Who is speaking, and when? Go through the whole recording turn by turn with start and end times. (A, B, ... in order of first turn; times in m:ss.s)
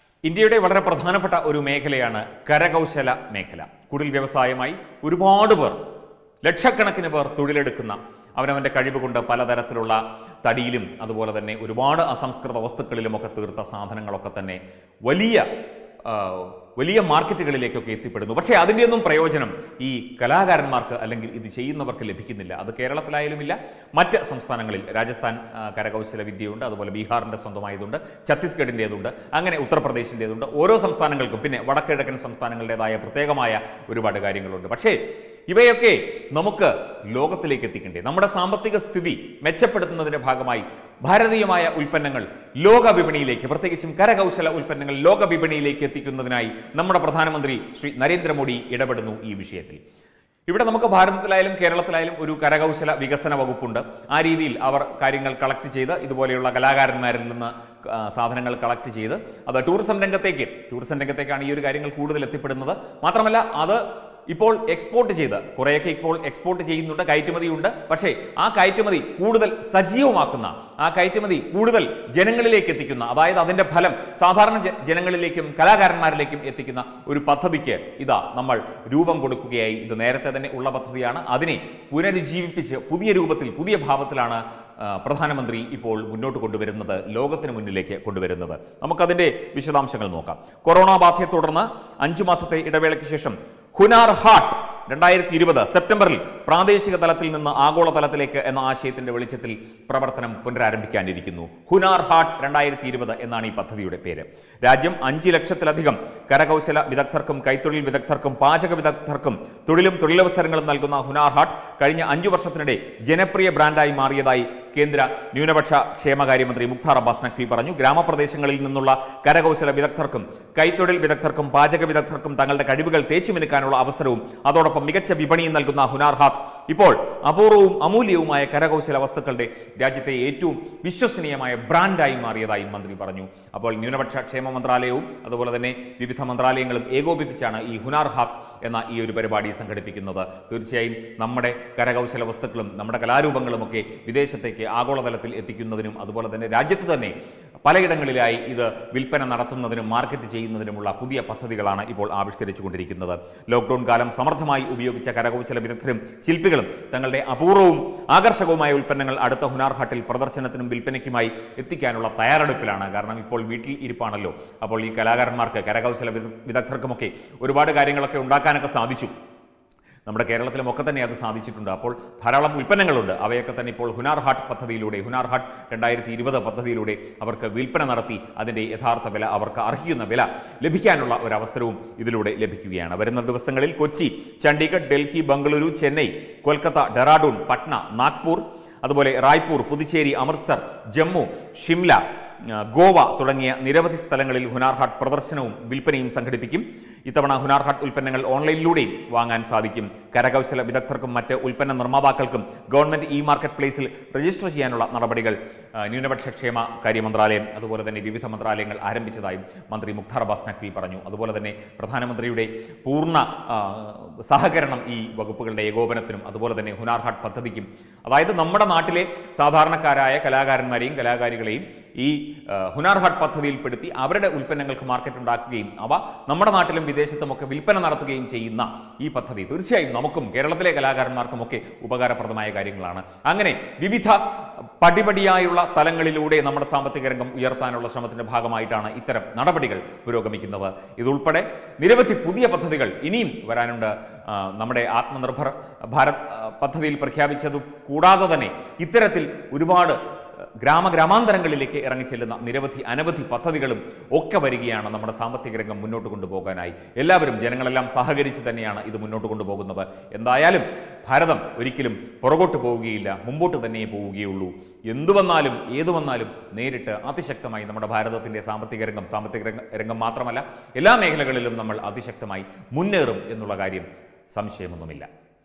0:00.2-0:05.8 A
0:06.4-0:15.4 A
0:16.0-0:35.0 A
0:35.5-0:49.8 A
0:50.5-2:49.1 A
2:50.0-3:54.2 A
3:54.8-4:10.0 A
4:10.6-4:35.1 A